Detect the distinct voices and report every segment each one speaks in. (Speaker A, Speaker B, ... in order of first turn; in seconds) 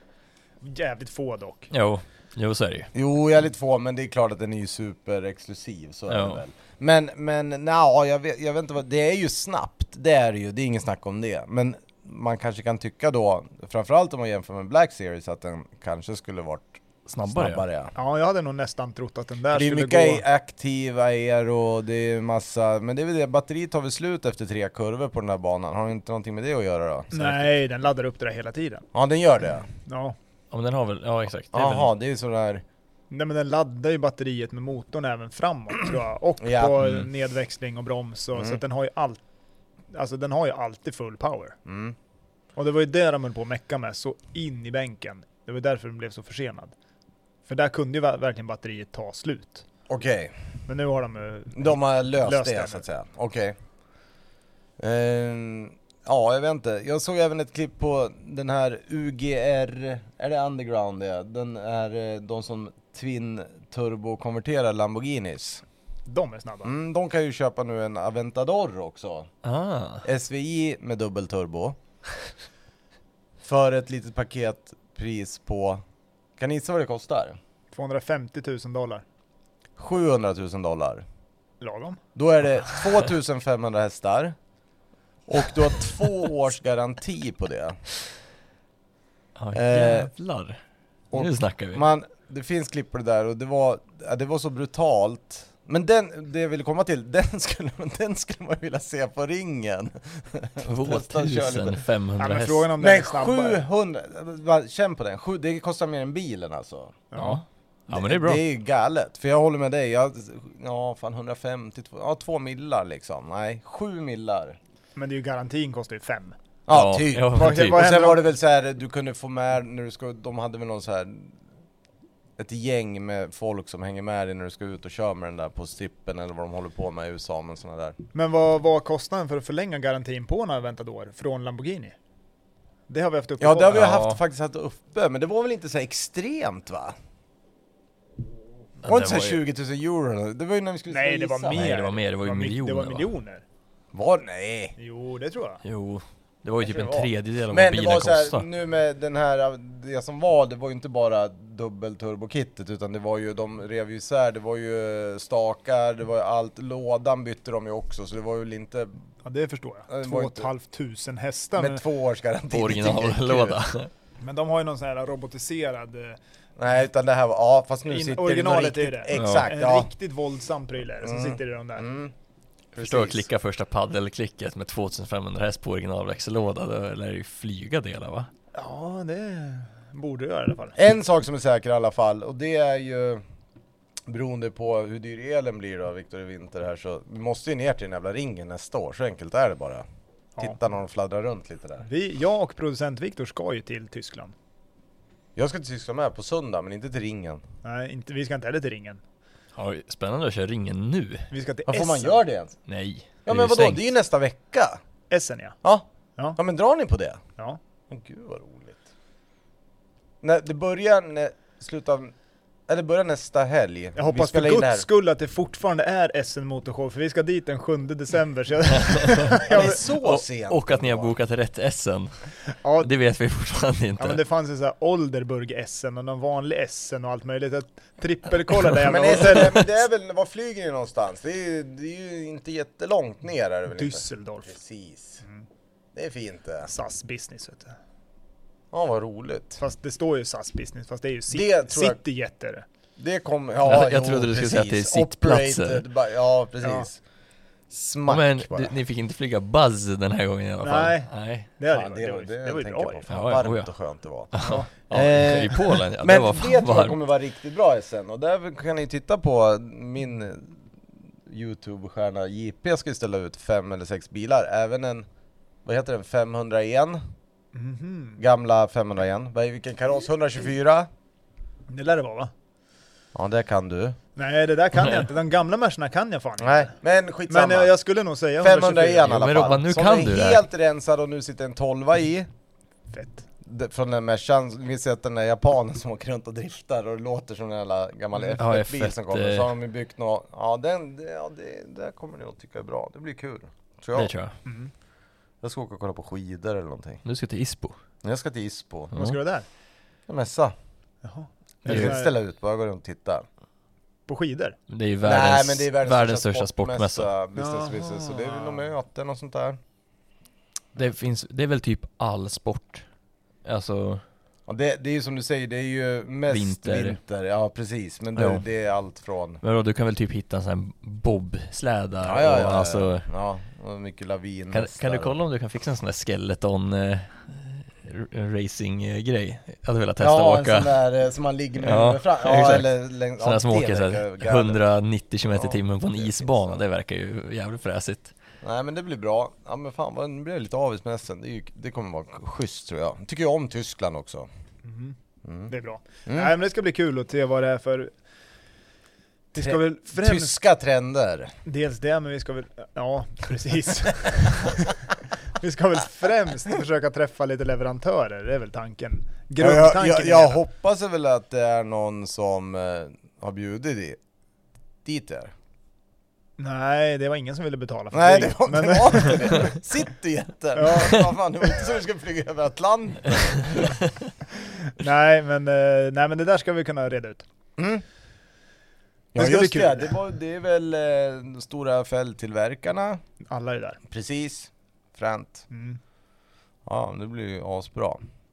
Speaker A: 0.6-1.7, 17.9-20.2, 27.1-28.9, 29.9-30.2, 33.1-39.2, 39.9-41.6, 42.6-46.7, 47.5-49.6, 50.7-52.9, 66.1-66.7, 77.7-79.0, 81.6-82.0, 102.2-103.6, 107.1-107.4, 115.0-116.3, 117.3-118.2, 128.1-132.0, 132.9-134.0, 140.9-143.4, 144.8-145.6, 159.2-161.8, 164.2-166.2, 167.9-171.9, 178.5-180.8, 191.8-194.3, 197.6-199.0, 201.3-202.2, 205.1-205.6, 214.0-219.8, 222.6-222.9, 224.0-229.7, 233.7-234.6, 236.6-237.7, 239.6-242.7, 246.6-246.9, 250.6-253.0, 254.4-254.7, 267.5-268.2, 271.7-272.3, 274.2-276.7, 277.3-279.3, 282.9-283.2, 294.4-294.7, 298.9-299.5, 301.0-302.1, 304.1-304.6, 307.4-308.7, 344.6-344.9, 345.5-347.9, 349.3-350.4, 351.4-360.4, 366.4-369.6, 370.6-371.0, 374.5-377.3, 379.2-379.9, 383.3-383.8, 385.5-385.8
Speaker B: 1.7-2.9, 6.1-6.4, 17.1-17.7, 30.5-31.9, 36.8-37.1, 69.4-70.1, 89.4-90.6, 91.1-91.8, 100.6-102.7, 107.2-108.4, 116.7-118.0, 133.7-134.2, 138.8-139.4, 141.5-143.1, 145.6-148.5, 162.5-163.9, 169.1-169.5, 172.8-178.3, 199.6-201.3, 202.7-203.8, 218.7-222.3, 222.8-224.2, 243.6-245.8, 248.1-251.5, 253.1-253.7, 254.3-257.0, 279.0-280.4, 288.4-289.5, 293.9-294.4, 297.1-297.8, 298.9-299.2, 301.7-301.9, 304.7-307.1, 310.8-312.9, 313.4-314.0, 316.3-317.0, 318.2-318.4, 319.4-323.1, 324.5-330.7, 331.6-332.7, 333.2-338.1
Speaker C: 2.9-17.9, 19.5-27.4, 28.9-29.7, 31.5-32.6, 36.4-36.9, 41.7-42.0, 49.9-50.4, 51.5-53.6, 54.8-65.6, 66.6-69.3, 70.0-71.8, 73.4-75.8, 76.4-77.4, 79.8-81.0, 82.2-84.4, 85.3-87.8, 89.5-90.1, 91.1-101.8, 102.8-107.0, 107.9-114.6, 116.7-121.4, 122.4-128.0, 133.4-136.9, 138.8-141.8, 143.9-144.8, 146.6-158.9, 159.9-160.5, 161.6-163.6, 166.6-169.9, 171.0-172.1, 172.8-173.3, 180.8-183.2, 184.1-189.8, 190.4-191.9, 195.4-197.4, 201.7-202.6, 203.3-204.8, 205.6-207.2, 207.9-208.8, 210.2-212.1, 212.7-214.9, 219.4-221.2, 228.8-235.2, 235.9-236.7, 238.7-239.6, 241.3-242.0, 243.0-247.0, 247.7-248.7, 251.7-260.6, 261.3-265.1, 265.6-267.0, 268.2-270.9, 273.1-274.0, 276.4-277.7, 278.4-282.3, 283.4-294.1, 295.4-297.0, 298.0-298.9, 300.1-300.5, 301.6-303.3, 305.0-309.6, 314.5-319.4, 322.0-325.2, 330.0-334.6, 335.3-336.6, 338.4-344.3, 345.2-345.5, 346.1-346.3, 349.3-351.3, 359.4-364.0, 364.8-365.3, 367.9-373.8, 377.6-377.8, 379.1-383.0, 383.9-385.5, 386.7-388.0